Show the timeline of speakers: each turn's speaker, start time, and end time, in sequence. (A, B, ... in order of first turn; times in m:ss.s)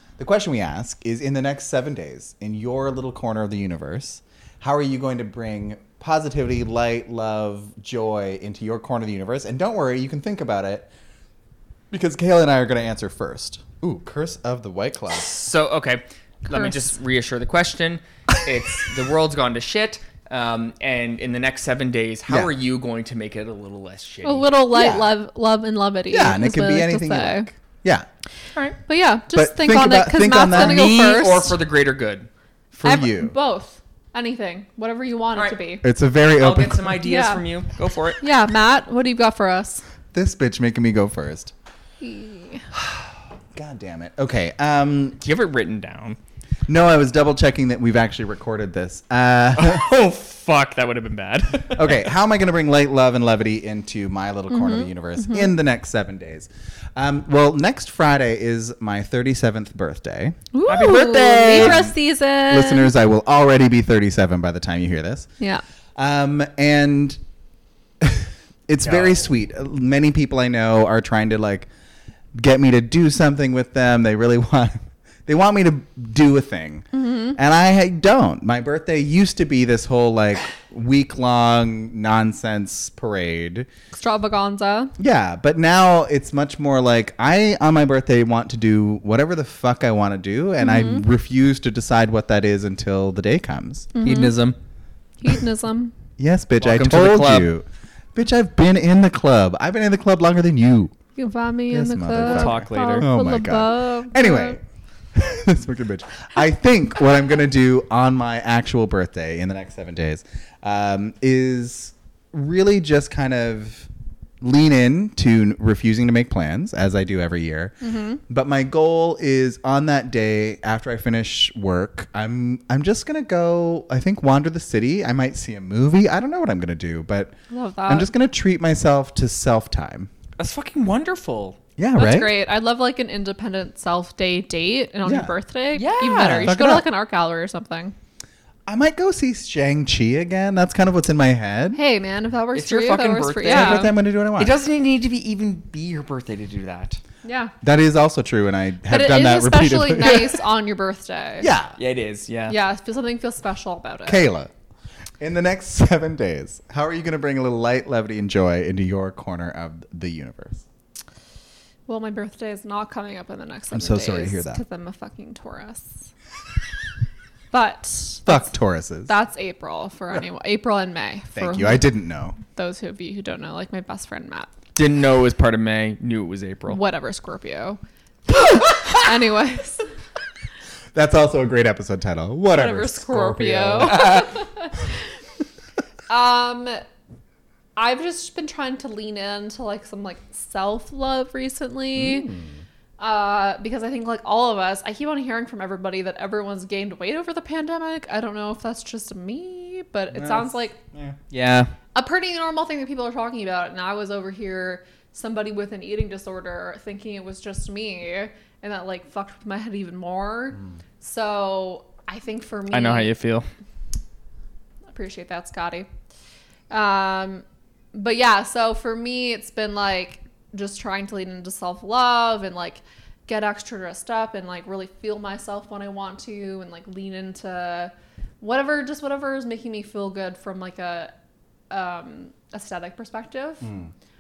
0:00.2-0:10.9 A
0:11.9-0:15.4 A
0:15.1-0:24.5 B
0:16.5-0:16.9 C
0:24.2-0:27.5 C
0:24.7-0:25.1 A
0:26.1-0:28.1 A
0:28.8-0:31.6 C
0:29.3-0:31.0 A
0:30.5-0:32.3 B
0:32.7-0:33.3 A
0:32.8-0:35.8 C
0:35.8-0:37.0 A
0:36.3-0:38.2 B
0:37.0-0:37.4 C
0:38.2-0:39.8 C
0:40.1-0:41.5 A
0:42.0-0:42.6 C
0:43.6-0:45.2 A
0:45.2-0:46.2 B
0:46.7-0:49.9 A
0:49.5-0:52.1 B
0:51.7-1:00.4 A
0:54.5-0:55.5 C
1:00.5-1:02.9 C
1:00.7-1:01.9 B
1:01.5-1:01.9 A
1:02.5-1:05.3 A
1:06.0-1:07.2 A
1:08.0-1:11.7 A
1:08.8-1:09.3 B
1:12.4-1:23.7 A
1:16.9-1:17.4 C
1:23.9-1:24.9 C
1:25.0-1:34.0 A
1:30.6-1:31.1 C
1:34.0-1:34.3 C
1:34.0-1:34.6 B
1:35.2-1:36.0 C
1:36.2-1:40.9 A
1:36.6-1:37.5 B
1:41.2-1:44.6 C
1:41.7-1:44.6 A
1:42.2-1:43.1 B
1:45.1-1:53.9 A
1:54.4-1:57.8 A
1:57.8-1:58.2 C
1:58.3-2:07.4 A
2:07.5-2:08.1 C
2:07.9-2:10.1 A
2:10.4-2:11.6 B
2:11.8-2:12.3 A
2:12.0-2:17.9 C
2:15.0-2:15.3 A
2:15.8-2:16.5 B
2:16.2-2:16.9 A
2:18.7-2:21.8 A
2:21.8-2:23.9 C
2:22.6-2:27.0 B
2:23.4-2:24.6 A
2:27.2-2:27.5 C
2:27.6-2:30.4 A
2:28.9-2:31.5 C
2:31.4-2:31.8 A
2:31.8-2:32.6 B
2:32.5-2:34.3 C
2:34.1-2:34.5 A
2:35.2-2:40.6 A
2:41.9-2:46.0 C
2:43.7-2:44.6 A
2:47.5-2:48.5 C
2:48.3-2:49.1 A
2:49.1-2:51.9 C
2:51.4-2:52.4 A
2:52.4-2:54.5 C
2:54.8-2:56.8 B
2:56.7-2:57.8 C
2:58.3-2:59.8 C
3:00.9-3:04.3 A
3:02.5-3:04.8 C
3:06.1-3:06.8 C
3:07.8-3:12.3 C
3:12.0-3:12.6 A
3:13.0-3:20.8 C
3:20.1-3:21.2 A
3:21.3-3:21.7 B
3:22.0-3:33.1 C
3:32.7-3:33.5 B
3:34.9-3:35.9 C
3:36.7-3:51.1 C
3:51.7-3:53.7 C
3:53.6-3:53.9 A